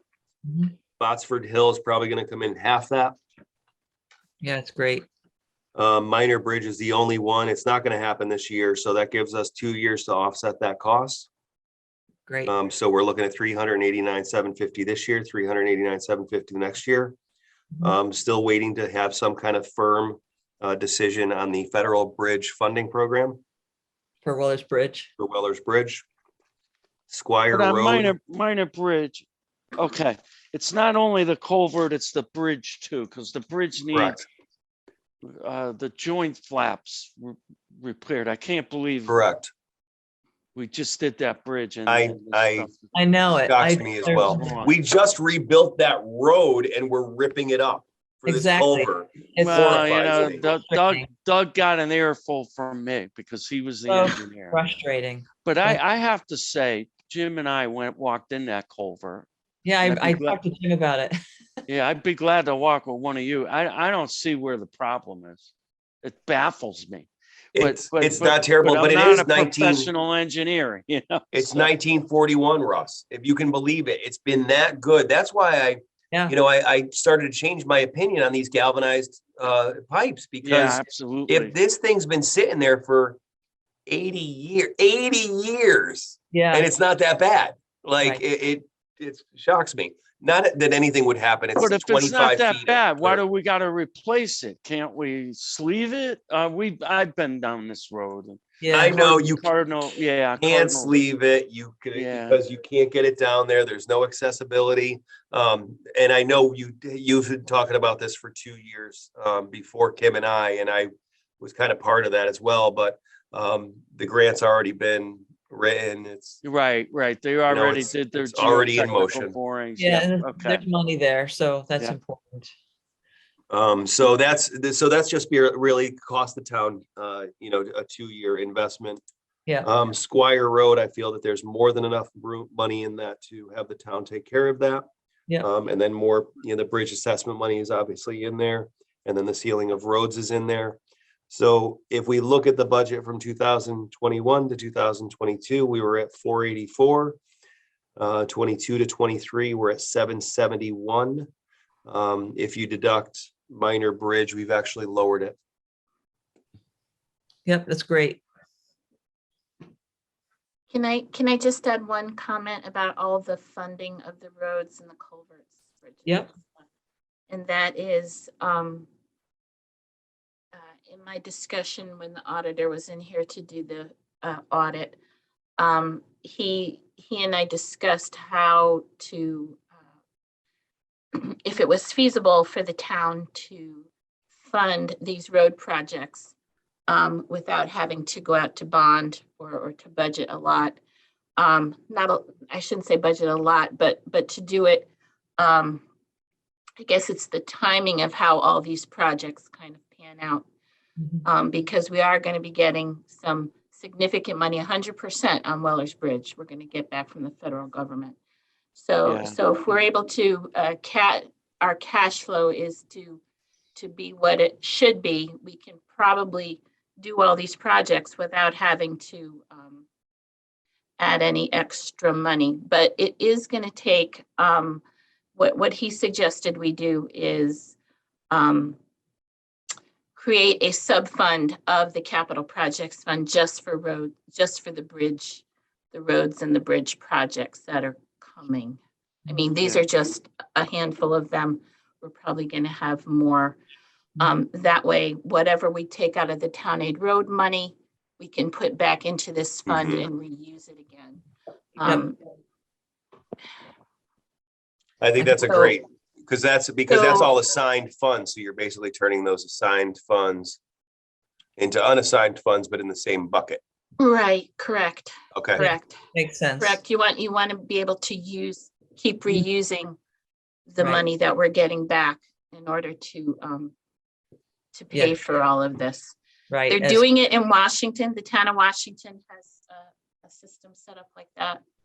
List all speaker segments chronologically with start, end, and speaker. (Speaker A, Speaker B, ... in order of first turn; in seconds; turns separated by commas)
Speaker A: 0.5-0.7, Speaker B: 1.0-3.2, Speaker A: 4.4-5.0, Speaker B: 5.7-11.3, Speaker B: 12.4-17.1, Speaker B: 17.8-23.4, Speaker A: 24.2-25.1, Speaker B: 25.2-26.0, Speaker B: 27.1-28.1, Speaker C: 27.5-29.2, Speaker C: 29.8-34.2, Speaker B: 33.9-34.2, Speaker C: 35.2-39.2, Speaker B: 39.1-39.5, Speaker C: 40.5-42.9, Speaker B: 41.9-42.7, Speaker A: 42.9-44.7, Speaker B: 43.4-50.5, Speaker C: 44.0-44.7, Speaker A: 48.3-51.1, Speaker C: 49.4-54.7, Speaker A: 53.9-55.8, Speaker C: 55.4-59.3, Speaker A: 59.6-61.2, Speaker C: 59.8-60.4, Speaker C: 61.7-65.5, Speaker C: 66.0-71.7, Speaker B: 67.5-69.9, Speaker B: 71.3-83.2, Speaker C: 80.4-81.5, Speaker B: 83.9-93.2, Speaker A: 86.3-86.7, Speaker C: 91.5-101.0, Speaker A: 98.6-99.2, Speaker B: 98.7-99.5, Speaker B: 100.4-116.4, Speaker C: 101.9-102.4, Speaker C: 116.4-120.6, Speaker B: 117.5-119.3, Speaker A: 119.8-122.5, Speaker B: 123.5-129.0, Speaker B: 129.6-134.8, Speaker B: 135.4-140.8, Speaker B: 141.3-147.2, Speaker B: 148.0-151.3, Speaker B: 151.8-155.3, Speaker A: 157.4-158.2, Speaker D: 160.7-166.5, Speaker D: 167.3-168.9, Speaker D: 170.5-175.0, Speaker D: 175.6-179.6, Speaker D: 181.1-183.9, Speaker D: 184.4-186.3, Speaker D: 186.9-190.8, Speaker D: 191.4-195.8, Speaker D: 196.8-200.5, Speaker A: 201.0-201.2, Speaker D: 201.2-208.2, Speaker D: 208.7-213.2, Speaker C: 209.1-209.4, Speaker D: 213.7-219.8, Speaker D: 221.0-224.8, Speaker D: 225.3-227.8, Speaker D: 228.3-228.8, Speaker D: 230.1-243.6, Speaker D: 244.2-251.2, Speaker B: 249.7-250.1, Speaker D: 251.8-252.2, Speaker B: 255.0-260.6, Speaker D: 255.2-255.8, Speaker D: 256.9-257.3, Speaker B: 261.6-263.6, Speaker D: 264.0-266.0, Speaker B: 265.3-265.6, Speaker A: 265.6-266.8, Speaker D: 266.6-270.0, Speaker D: 270.7-273.7, Speaker A: 270.8-271.0, Speaker D: 274.7-276.1, Speaker A: 274.9-275.2, Speaker A: 276.5-277.0, Speaker D: 276.7-281.6